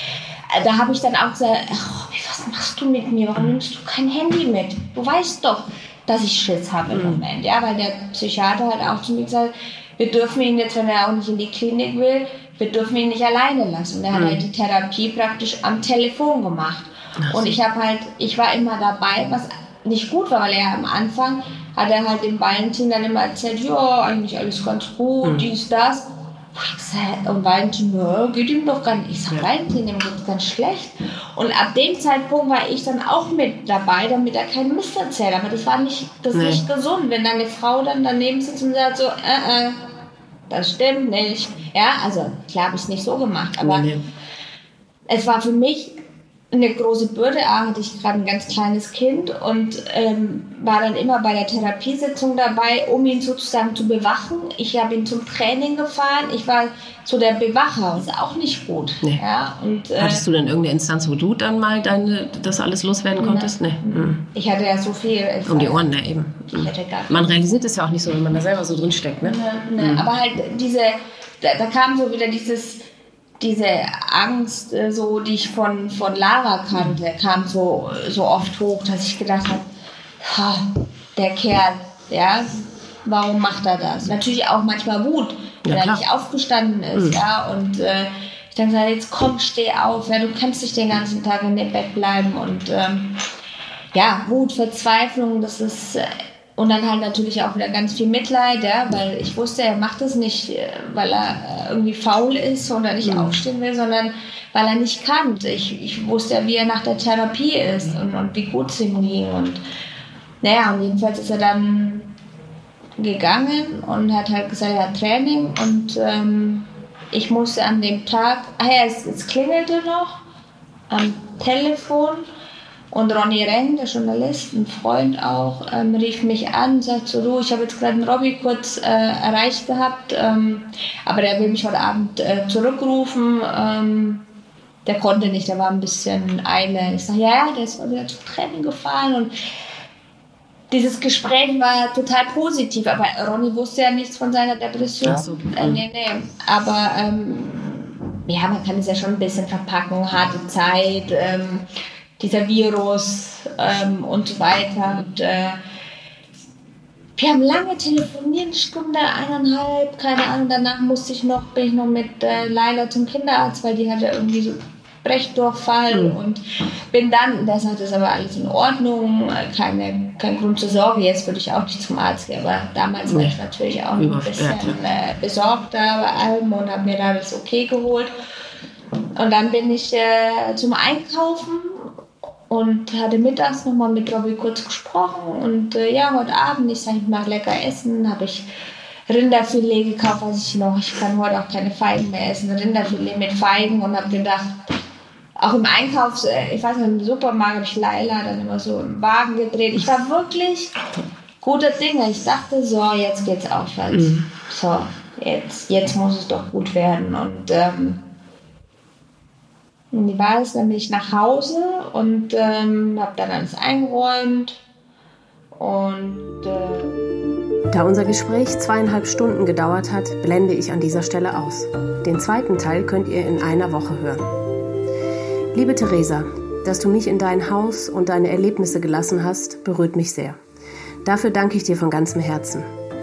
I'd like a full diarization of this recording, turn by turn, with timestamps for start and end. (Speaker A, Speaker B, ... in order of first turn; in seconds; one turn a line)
Speaker A: 0.5-39.8
Speaker B: 6.9-7.2
Speaker B: 14.1-14.4
Speaker B: 17.2-17.5
Speaker B: 25.2-25.5
Speaker B: 36.3-36.6
Speaker A: 40.5-43.9
Speaker B: 43.6-44.0
Speaker A: 45.1-46.0
Speaker A: 46.5-60.2
Speaker B: 60.0-64.2
Speaker A: 63.2-65.9
Speaker B: 65.5-70.1
Speaker A: 66.5-67.4
Speaker A: 69.2-72.9
Speaker A: 73.4-79.7
Speaker A: 80.2-82.5
Speaker A: 83.0-93.2
Speaker B: 85.7-86.0
Speaker A: 93.9-109.6
Speaker B: 103.0-103.4
Speaker A: 110.4-112.1
Speaker A: 113.0-120.2
Speaker A: 120.9-122.3
Speaker A: 122.9-134.2
Speaker A: 134.8-139.3
Speaker A: 140.7-151.7
Speaker B: 145.1-145.8
Speaker A: 152.2-155.6
Speaker A: 157.2-178.1
Speaker B: 174.0-174.8
Speaker A: 179.2-181.9
Speaker A: 182.5-188.5
Speaker A: 189.1-194.6
Speaker A: 195.4-200.8
Speaker A: 201.4-208.0
Speaker B: 203.9-204.3
Speaker A: 209.9-214.6
Speaker A: 215.6-216.9
Speaker C: 217.7-224.3
Speaker C: 225.5-230.4
Speaker C: 231.0-232.7